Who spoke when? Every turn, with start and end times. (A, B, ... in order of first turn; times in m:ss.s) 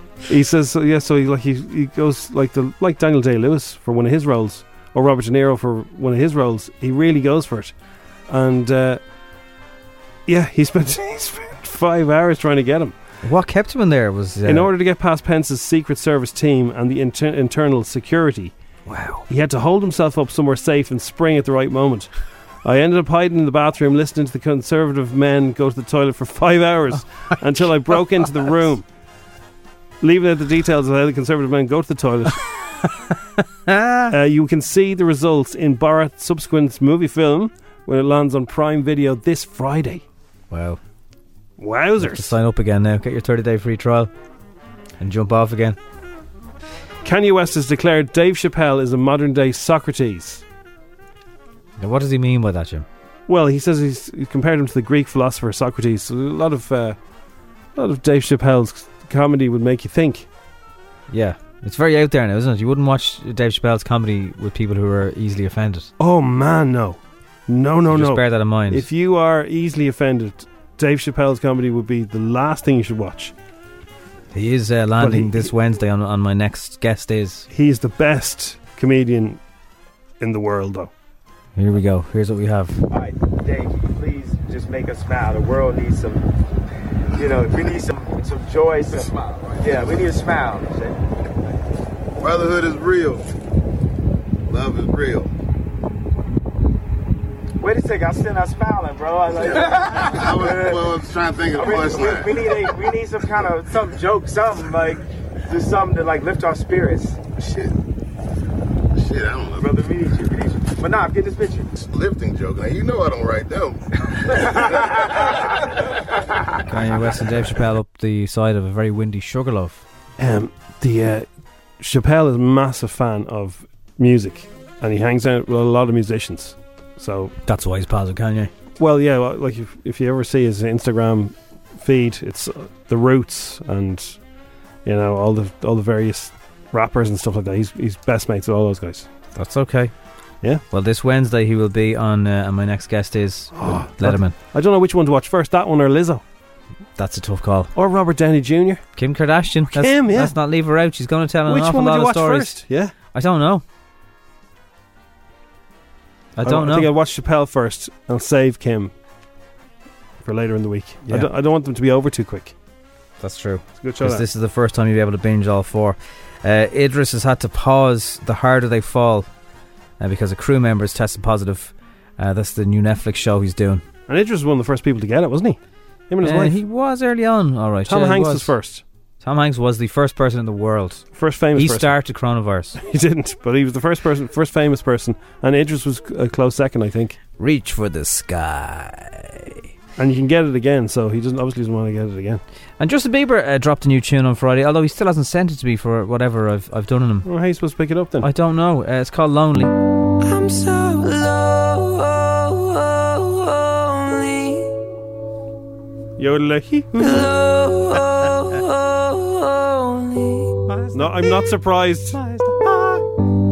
0:00.3-0:07.7 A
0:08.3-0:09.0 A
0:10.2-0:12.9 A
0:13.2-0:14.7 B
0:14.4-0:18.5 A
0:18.9-0:19.2 B
0:19.3-0:22.1 A
0:22.6-0:28.8 A
0:30.0-0:32.3 A
0:33.7-0:34.1 B
0:34.1-0:40.0 A
0:40.5-0:40.8 B
0:41.6-0:42.3 A
0:42.0-0:44.1 B
0:45.0-0:45.8 B
0:47.0-0:50.4 A
0:51.8-0:52.8 B
0:53.3-0:57.0 A
0:57.7-1:00.3 A
1:01.1-1:05.9 B
1:06.0-1:13.3 A
1:07.9-1:08.8 B
1:14.3-1:17.5 B
1:15.0-1:15.5 A
1:17.5-1:19.4 A
1:20.2-1:20.9 A
1:21.6-1:22.8 B
1:22.9-1:26.2 C
1:27.1-1:31.0 C
1:32.2-1:33.2 D
1:34.5-1:35.3 D
1:37.6-1:40.9 C
1:39.4-1:42.6 D
1:41.5-1:47.2 C
1:47.4-1:47.7 D
1:48.9-1:49.7 D
1:49.6-1:51.7 C
1:51.8-1:53.8 D
1:56.7-1:59.8 B
2:00.2-2:01.3 A
2:01.8-2:07.4 A
2:07.4-2:08.5 B
2:08.8-2:14.2 A
2:14.8-2:19.1 A
2:19.3-2:19.9 B
2:20.7-2:24.4 B
2:23.5-2:26.2 A
2:27.0-2:27.7 B
2:27.7-2:28.8 A
2:29.0-2:33.6 B
2:29.7-2:30.4 A
2:31.4-2:32.9 A
2:36.4-2:36.9 B
2:36.4-2:38.9 A
2:40.2-2:42.5 A
2:43.2-2:49.3 B
2:43.8-2:44.2 A
2:50.0-2:53.8 B
2:54.1-2:55.6 A
2:56.1-2:56.6 A
2:56.2-2:58.5 B
2:57.8-2:58.8 A
2:59.2-3:02.8 B
3:01.1-3:01.9 A
3:02.8-3:07.2 A
3:07.4-3:09.6 B
3:10.0-3:12.4 A
3:12.8-3:17.2 B
3:17.2-3:18.3 A
3:18.2-3:19.7 B
3:20.2-3:24.7 E
3:26.2-3:27.3 A
3:27.0-3:30.6 E
3:30.7-3:31.1 B
3:30.9-3:32.2 A
3:32.1-3:32.9 B